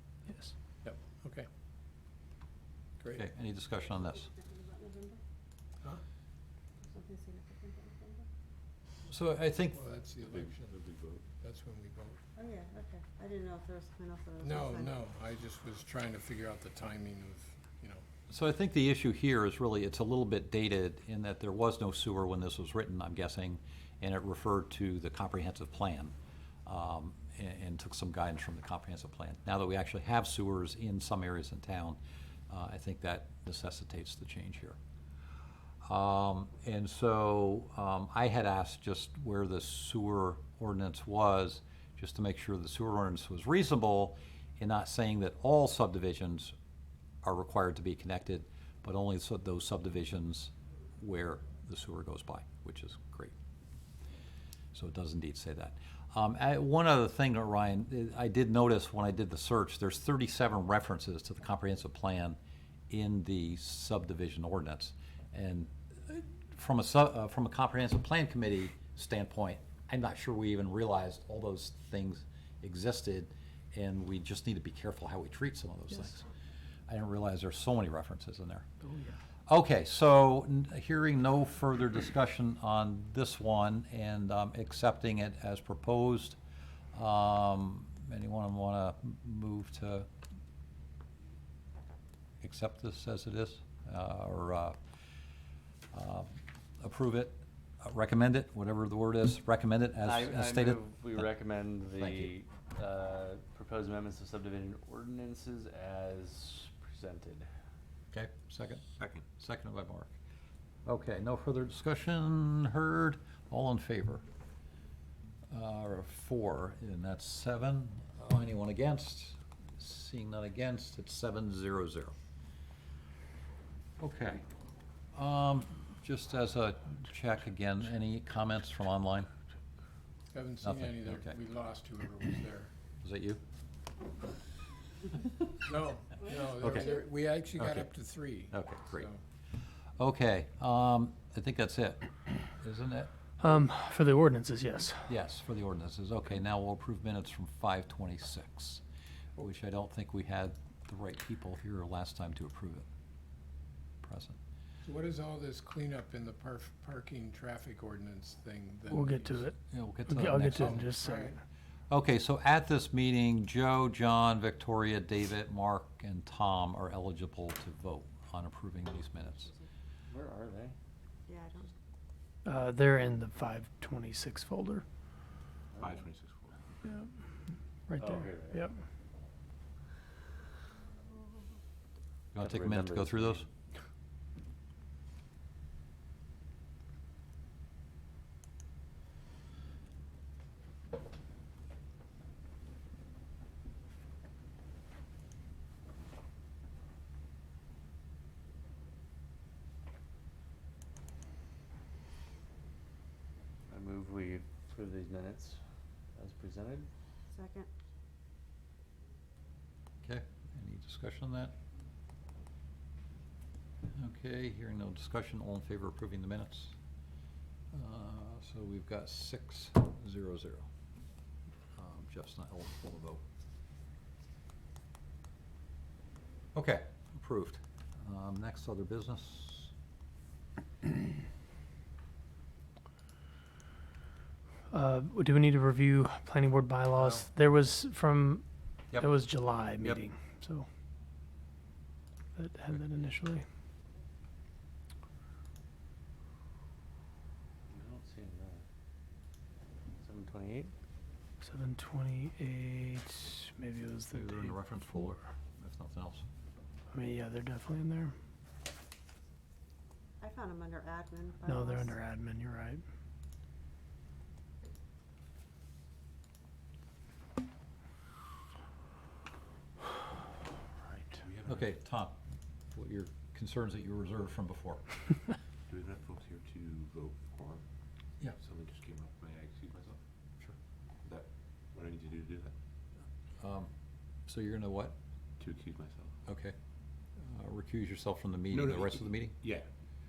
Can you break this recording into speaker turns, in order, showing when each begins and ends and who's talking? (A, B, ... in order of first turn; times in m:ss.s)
0:00.8-0:01.5 A
0:03.1-0:04.3 B
0:04.3-0:05.2 C
0:06.8-0:08.3 C
0:09.1-0:09.8 B
0:09.7-0:10.8 A
0:10.3-0:11.2 D
0:11.4-0:12.2 A
0:12.4-0:15.0 C
0:14.4-0:18.0 A
0:18.3-0:26.1 B
0:26.7-0:32.0 B
0:32.5-0:34.8 B
0:35.8-0:46.5 B
0:47.2-0:53.3 B
0:54.7-1:02.4 B
1:02.9-1:16.2 B
1:16.9-1:18.7 B
1:18.8-1:19.2 E
1:19.5-1:26.4 B
1:26.9-1:30.1 B
1:32.4-1:34.8 B
1:35.9-1:41.3 B
1:40.0-1:47.5 F
1:41.9-1:42.3 B
1:48.1-1:50.1 B
1:49.0-1:49.2 D
1:50.9-1:54.2 B
1:55.5-2:02.1 B
2:04.0-2:04.4 B
2:05.1-2:09.3 B
2:10.3-2:12.7 A
2:10.6-2:11.4 B
2:13.0-2:13.4 B
2:15.6-2:19.2 A
2:16.6-2:17.0 B
2:17.6-2:17.9 B
2:18.5-2:19.1 B
2:20.0-2:23.1 B
2:23.4-2:25.1 E
2:25.1-2:28.8 B
2:29.4-2:32.9 B
2:34.0-2:34.4 B
2:34.8-2:39.5 A
2:38.9-2:41.4 E
2:39.7-2:40.9 B
2:40.5-2:41.4 A
2:41.9-2:49.5 B
2:50.1-2:50.8 F
2:51.3-2:51.7 C
2:52.4-2:54.8 E
2:55.7-2:56.0 F
2:55.8-2:56.6 D
2:56.8-2:57.1 E
2:57.9-2:58.7 E
2:58.0-2:58.7 F
3:02.3-3:03.5 B
3:02.4-3:03.5 F
3:23.7-3:25.6 F
3:26.2-3:26.9 F
3:27.3-3:27.7 C
3:30.0-3:31.6 B
3:34.0-3:36.8 B
3:37.7-3:40.7 B
3:41.8-3:43.2 B
3:46.5-3:49.7 B
3:54.7-4:00.7 E
3:59.6-4:00.0 B
4:02.4-4:03.4 E
4:07.7-4:08.6 F
4:10.0-4:10.7 F
4:11.4-4:14.6 E
4:14.1-4:16.3 B
4:16.9-4:18.2 E
4:20.2-4:22.0 C
4:21.5-4:22.8 E
4:31.2-4:31.7 D
4:31.5-4:32.2 B
4:32.7-4:35.0 B
4:35.7-4:37.6 D
4:38.2-4:40.0 D
4:41.0-4:42.5 D
4:43.4-4:43.7 B
4:44.3-4:45.0 B
4:45.4-4:46.1 D
4:46.3-4:46.6 B
4:47.2-4:49.4 B
4:48.5-4:49.7 D